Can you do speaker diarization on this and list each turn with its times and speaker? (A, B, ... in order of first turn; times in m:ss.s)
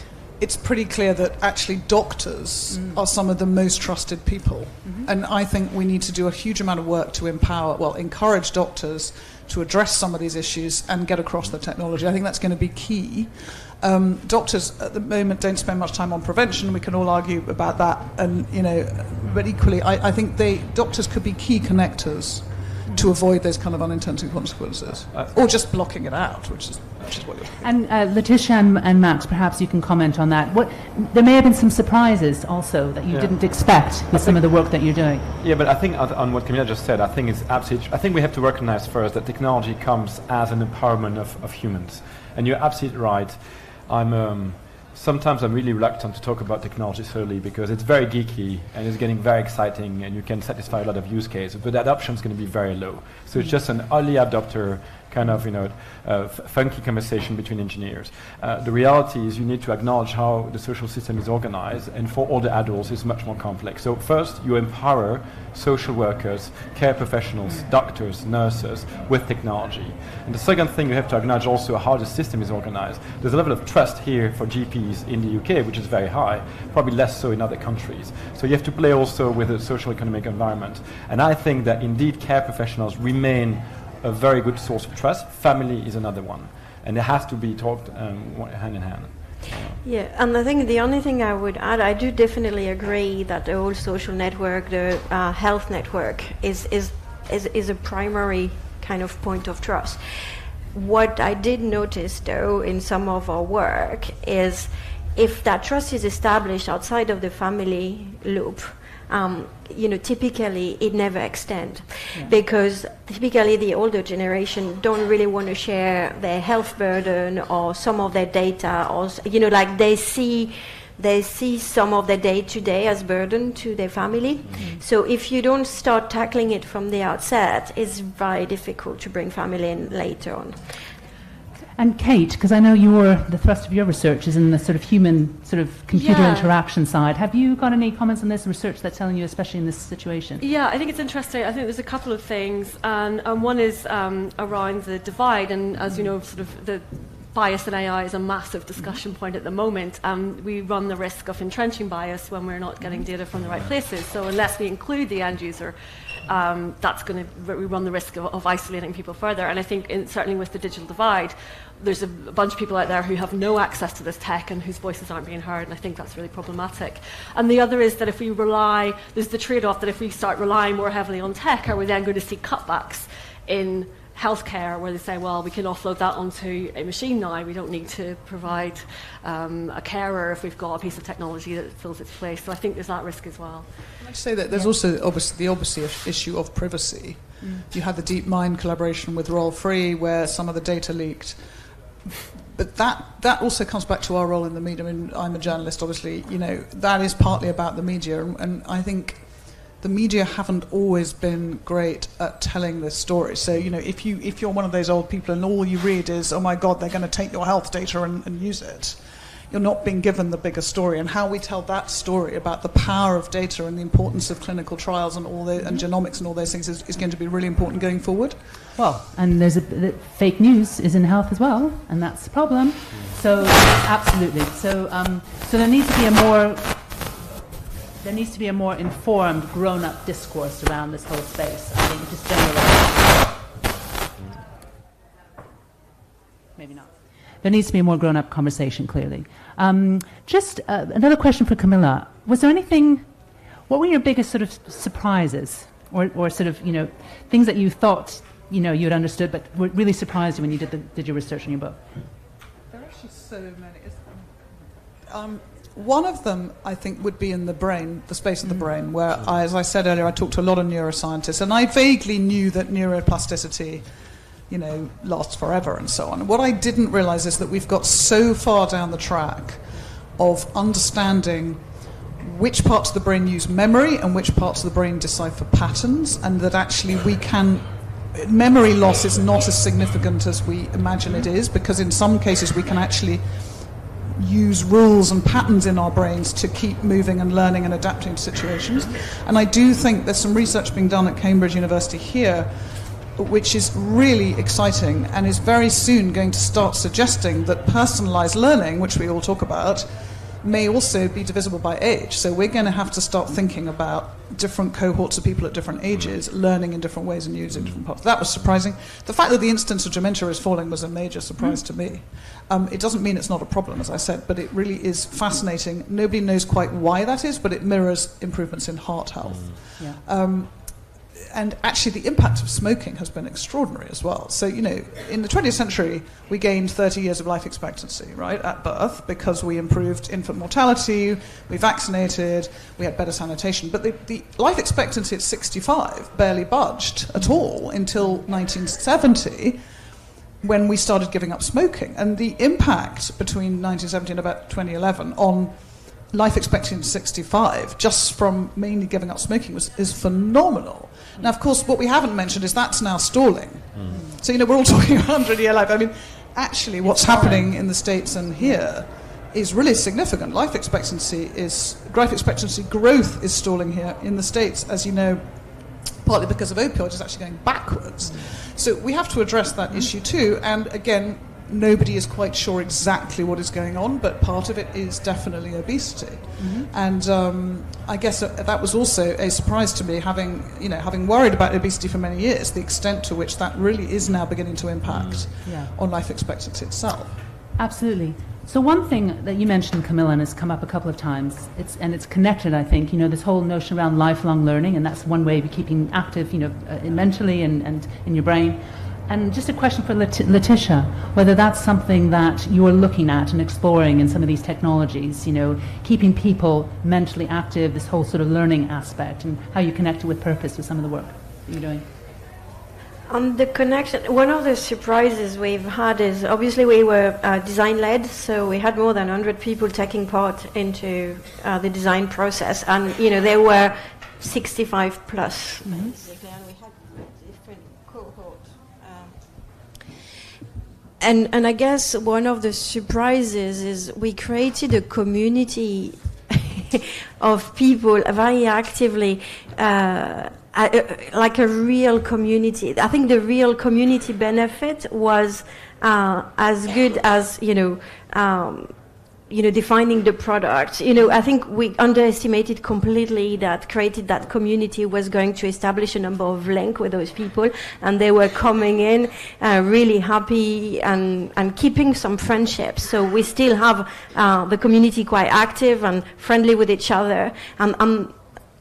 0:00.3-0:27.7 A
0:02.7-0:03.0 B
0:27.6-0:35.3 B
0:33.1-1:29.8 C
1:29.8-1:40.0 D
1:40.7-2:10.7 D
2:04.6-2:04.8 B
2:11.8-2:20.4 B
2:15.9-2:16.5 E
2:20.4-2:35.7 E
2:36.2-3:03.7 E
3:04.0-3:11.4 A
3:12.2-3:38.4 A
3:35.6-3:35.8 B
3:38.8-3:46.8 B
3:48.0-3:53.3 B
3:56.6-3:56.9 B
3:57.4-4:03.1 B
4:03.7-4:11.8 B
4:12.7-4:14.3 A
4:15.1-4:23.8 A
4:24.5-4:29.6 A
4:30.2-4:31.6 A
4:32.2-4:52.5 A
4:53.0-5:39.6 A
5:07.5-5:07.8 C
5:40.4-6:27.2 A
5:53.7-5:54.0 C
5:53.9-5:54.2 B
5:56.8-5:57.5 B
6:16.4-6:16.7 B
6:24.9-6:25.3 C
6:25.4-6:25.7 B
6:27.6-6:51.8 B
6:53.1-7:09.1 D
7:05.6-7:06.0 B
7:11.0-7:28.7 D
7:29.3-7:48.2 D